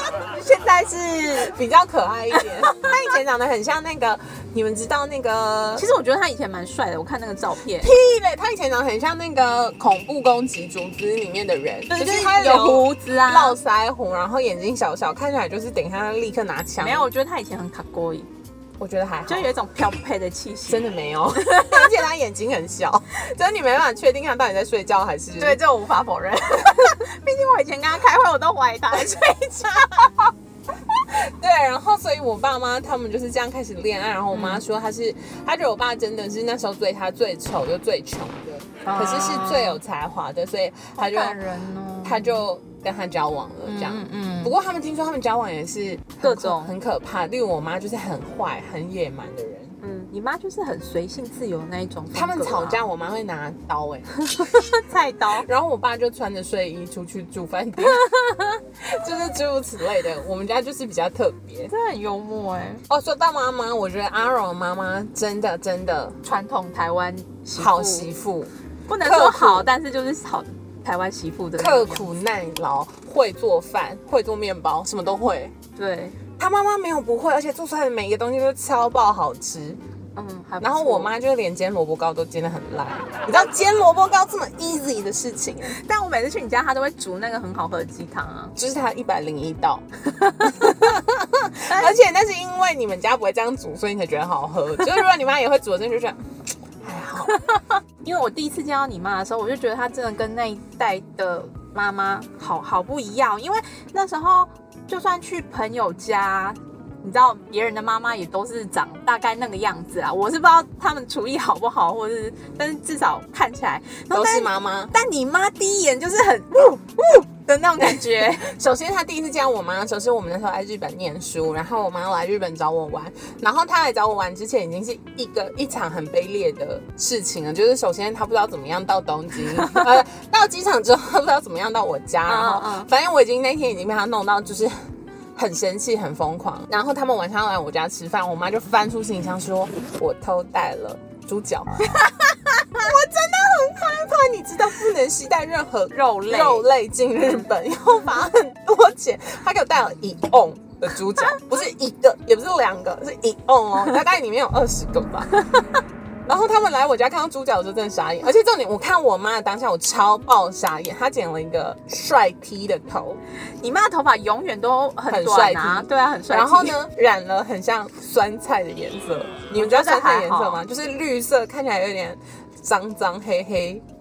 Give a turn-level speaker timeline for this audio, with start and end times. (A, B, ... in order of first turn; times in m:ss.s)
0:00.3-0:01.6 A
0:01.3-0:05.9 B
0:02.3-0:03.2 A
0:05.7-0:08.0 A
0:07.6-0:17.1 B
0:11.8-0:13.6 A
0:16.6-0:18.3 A
0:18.8-0:19.6 B
0:19.1-0:22.1 A
0:20.7-0:25.7 B
0:25.1-0:30.3 A
0:29.0-0:29.4 B
0:31.1-0:41.5 B
0:34.2-0:34.6 A
0:38.7-0:39.8 A
0:40.9-0:42.8 A
0:42.0-0:49.7 B
0:43.6-0:44.6 A
0:46.0-0:46.8 A
0:49.8-0:53.0 A
0:52.1-0:54.1 B
0:54.1-0:55.5 A
0:55.2-0:58.0 B
0:57.8-0:59.0 A
0:58.8-1:01.7 B
1:01.4-1:02.8 A
1:02.9-1:06.1 B
1:06.2-1:12.2 A
1:07.6-1:09.7 B
1:11.6-1:15.5 B
1:15.7-1:16.3 A
1:16.3-1:19.8 B
1:20.2-1:21.2 A
1:20.6-1:25.8 B
1:23.0-1:24.0 A
1:25.4-1:28.6 A
1:28.6-1:29.8 B
1:30.2-1:32.2 A
1:31.7-1:36.2 B
1:34.7-1:35.0 A
1:36.8-1:37.4 B
1:37.2-1:37.5 A
1:38.0-1:58.6 A
1:54.1-1:54.9 B
1:57.8-2:14.7 B
2:09.3-2:10.2 A
2:12.1-2:13.0 A
2:15.4-2:21.7 B
2:21.8-2:22.9 A
2:22.8-2:35.3 B
2:24.1-2:28.3 A
2:30.6-2:31.7 A
2:36.2-2:43.2 B
2:43.6-2:47.0 A
2:45.1-2:53.8 B
2:49.3-2:50.6 A